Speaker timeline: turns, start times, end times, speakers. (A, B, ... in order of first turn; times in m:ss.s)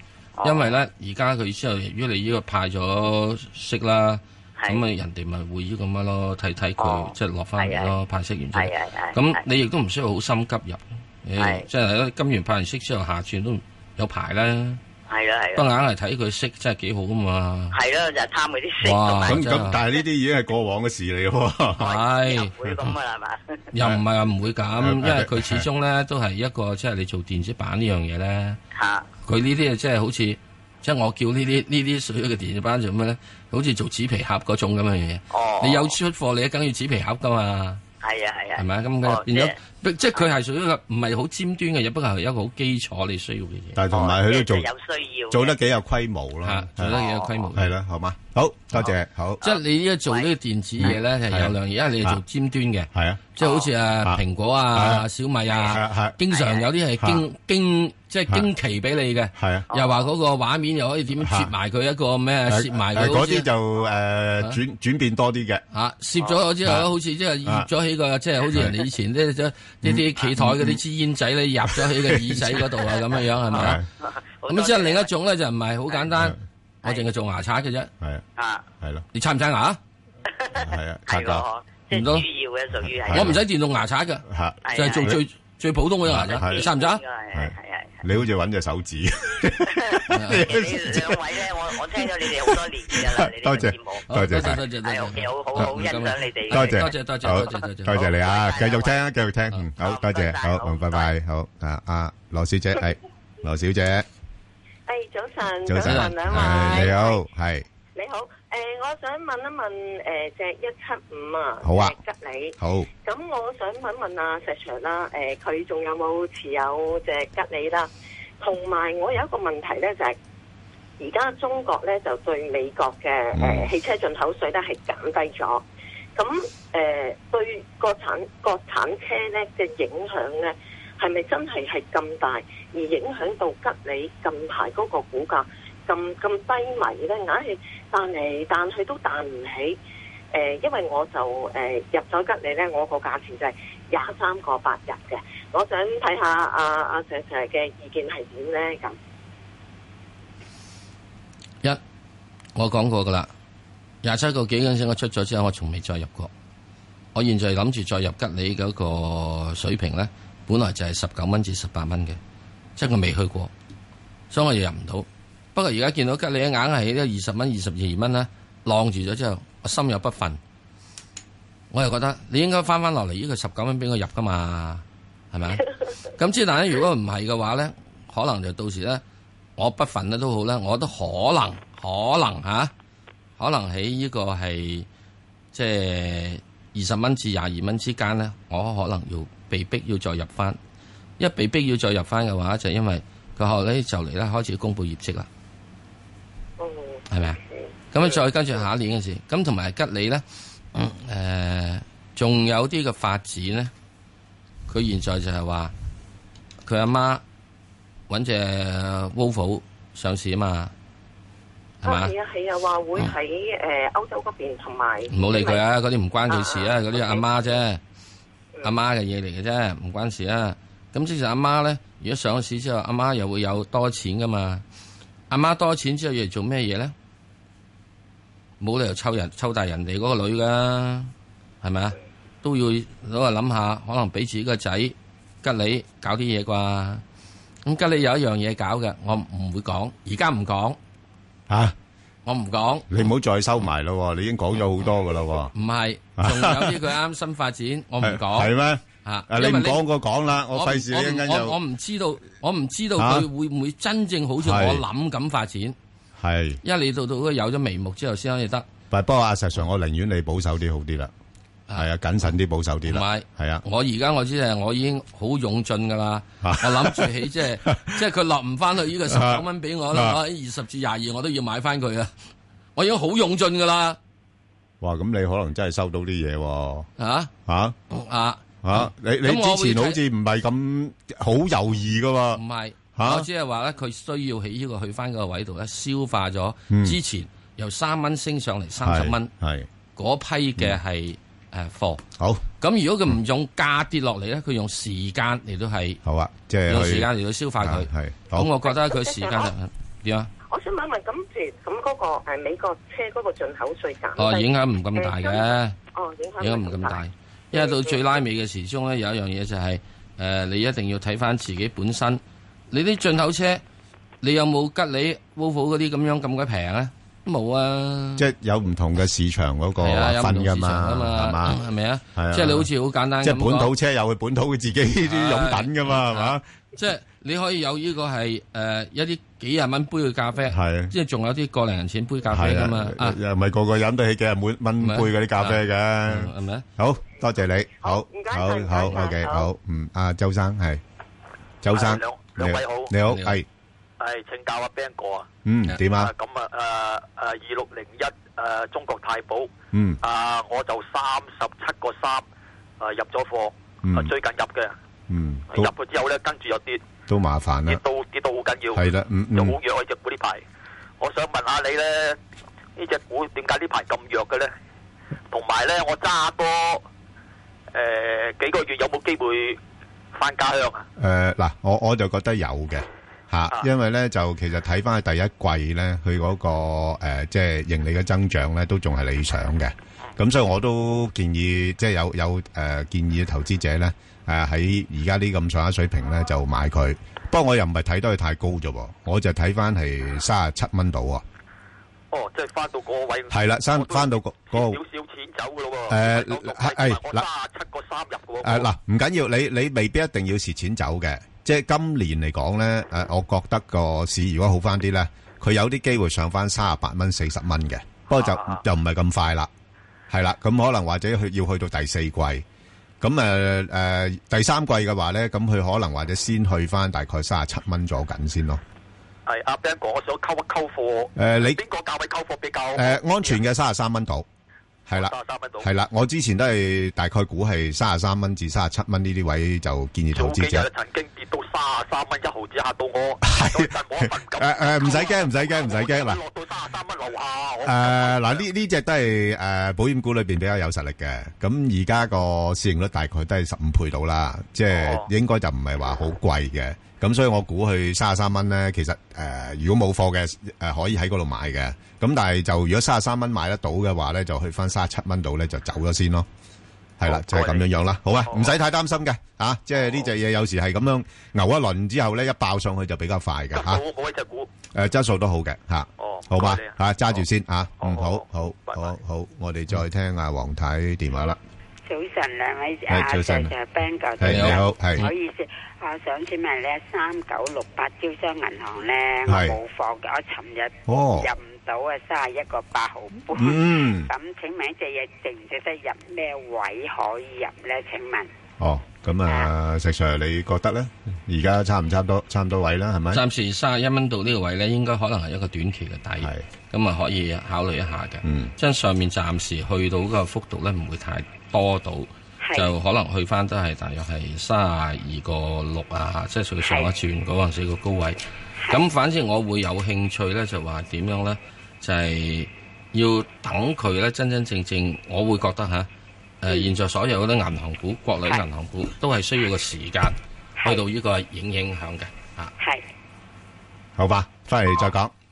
0:00.4-0:00.8 A
0:00.4-0:14.8 B
0:04.6-0:04.8 A
0:06.8-0:07.9 A
0:08.5-0:09.4 A
0:11.4-0:11.6 A
0:15.1-0:15.7 A
0:15.6-0:17.8 B
0:17.7-0:19.4 A
0:18.8-0:19.8 B
0:19.2-0:22.0 C
0:21.8-0:22.5 B
0:21.8-0:23.6 A
0:23.7-0:28.6 B
0:24.8-0:25.6 C
0:28.7-0:29.1 A
0:29.2-0:37.8 B
0:35.3-0:36.0 A
0:38.0-0:39.5 A
0:38.6-0:43.8 B
0:43.8-0:44.7 C
0:43.9-0:45.6 A
0:45.3-0:47.0 C
0:46.4-0:47.7 B
0:46.9-0:47.4 A
0:47.5-0:49.4 C
0:49.4-0:50.3 A
0:49.4-1:03.5 B
0:50.8-0:52.2 C
0:52.9-0:53.2 C
0:53.4-0:53.7 A
0:54.7-0:55.1 C
0:55.7-0:56.2 C
0:56.3-0:56.7 A
0:57.0-0:57.2 C
0:59.4-0:59.7 C
0:59.7-1:00.1 A
1:01.2-1:01.5 C
1:02.5-1:05.6 C
1:05.7-1:13.8 B
1:09.8-1:10.8 C
1:11.7-1:12.8 C
1:13.5-1:13.9 C
1:14.0-1:15.1 A
1:14.5-1:17.9 B
1:18.4-1:18.6 A
1:18.8-1:19.1 C
1:19.1-1:19.8 B
1:20.4-1:23.4 A
1:20.6-1:21.4 C
1:21.9-1:22.2 B
1:23.0-1:23.4 C
1:23.1-1:27.0 B
1:24.3-1:25.2 C
1:24.6-1:25.2 A
1:26.1-1:26.6 C
1:26.2-1:28.0 A
1:27.3-1:31.4 C
1:29.7-1:39.0 A
1:30.1-1:30.5 B
1:32.0-1:34.6 C
1:34.1-1:38.0 B
1:36.5-1:44.1 C
1:39.8-1:41.1 A
1:44.9-1:47.2 D
1:45.6-1:47.7 C
1:45.8-1:46.9 B
1:48.0-1:57.9 D
1:51.6-1:52.0 C
1:52.6-1:52.9 C
1:58.4-2:00.2 D
2:01.0-2:19.8 D
2:03.4-2:03.7 C
2:20.3-2:29.0 D
2:32.6-2:33.3 B
2:34.0-2:36.3 B
2:37.1-2:42.2 B
2:42.8-2:43.5 B
2:44.3-2:50.4 B
2:51.7-2:59.0 B
2:59.6-3:02.7 B
3:03.4-3:04.9 B
3:05.5-3:10.6 B
3:11.2-3:15.3 B
3:16.6-3:18.1 D
3:17.1-3:17.4 B
3:17.9-3:23.7 B
3:24.7-3:25.7 B
3:26.6-3:27.2 B
3:28.1-3:30.7 B
3:31.8-3:32.1 B
3:31.8-3:35.6 D
3:35.1-3:37.8 B
3:36.3-3:37.5 D
3:38.6-3:44.6 B
3:45.3-3:46.9 B
3:48.6-3:57.0 B
3:57.6-4:00.8 B
4:01.5-4:01.8 C
4:02.2-4:03.1 B
4:02.9-4:05.5 C
4:05.5-4:09.8 B
4:06.2-4:06.9 C
4:08.0-4:11.6 C
4:10.5-4:15.8 B
4:13.0-4:13.3 C
4:14.4-4:14.8 C
4:16.2-4:16.6 C
4:16.6-4:18.6 B
4:18.9-4:21.1 C
4:21.8-4:23.6 C
4:22.9-4:32.1 B
4:26.4-4:28.0 C
4:29.1-4:30.2 C
4:32.8-4:34.0 B
4:34.8-4:36.9 C
4:37.0-4:37.3 B
4:37.5-4:37.8 C
4:37.9-4:40.0 B
4:38.6-4:42.4 C
4:42.3-4:49.3 B
4:43.0-4:43.3 C
4:46.7-4:47.0 C
4:48.8-4:49.7 C
4:50.0-4:52.0 B
4:52.2-4:52.4 C
4:52.6-4:56.0 B
4:56.0-4:58.5 C
4:56.7-5:00.3 B
4:58.6-4:59.5 D
5:00.5-5:08.2 D
5:04.2-5:05.8 B
5:06.4-5:13.6 B
5:14.2-5:18.3 B
5:18.2-5:21.6 C
5:19.8-5:23.7 B
5:22.1-5:22.7 C
5:23.2-5:26.4 C
5:25.1-5:33.2 B
5:30.5-5:30.9 C
5:32.3-5:40.8 C
5:34.8-5:36.7 B
5:37.8-5:39.5 D
5:41.6-5:43.5 C
5:41.7-5:42.9 E
5:43.0-5:43.4 B
5:44.0-5:45.3 E
5:45.4-5:46.1 C
5:45.9-5:49.5 E
5:49.7-5:50.0 C
5:50.0-5:52.2 E
5:52.8-5:54.8 E
5:53.8-5:54.1 C
5:55.1-5:55.7 C
5:55.5-5:56.8 E
5:57.1-5:57.8 C
5:57.7-6:00.4 E
5:58.8-5:59.6 C
6:01.0-6:02.2 E
6:02.8-6:04.5 E
6:05.3-6:06.8 E
6:07.7-6:09.6 E
6:10.1-6:10.8 E
6:11.0-6:31.2 C
6:32.1-6:38.7 E
6:33.3-6:34.8 C
6:35.9-6:37.2 C
6:38.4-6:49.5 C
6:48.1-6:48.6 E
6:50.1-6:52.4 C
6:53.0-6:58.6 C
6:59.3-7:03.4 E
7:01.2-7:01.6 C
7:02.8-7:04.3 C
7:04.9-7:05.7 E
7:05.6-7:10.7 C
7:10.1-7:18.4 E
7:13.2-7:16.2 C
7:17.6-7:36.3 C
7:24.7-7:25.1 E
7:37.0-7:43.8 C
7:37.0-7:38.6 E
7:39.8-7:40.1 E
7:43.5-7:44.5 E
7:44.7-7:51.4 C
7:46.0-7:47.2 E
7:47.8-7:48.9 E
7:51.9-8:08.3 F
7:52.9-7:53.5 C
7:54.2-7:55.1 C
7:54.2-7:55.1 B
7:59.3-7:59.6 C
8:00.9-8:01.3 C
8:03.3-8:04.1 C
8:08.6-8:13.2 C
8:09.2-8:09.5 F
8:13.1-8:35.9 B
8:18.2-8:18.5 C
8:22.4-8:22.7 F
8:26.6-8:26.9 F
8:36.4-8:42.5 B
8:42.6-8:42.8 F
8:44.0-8:45.1 C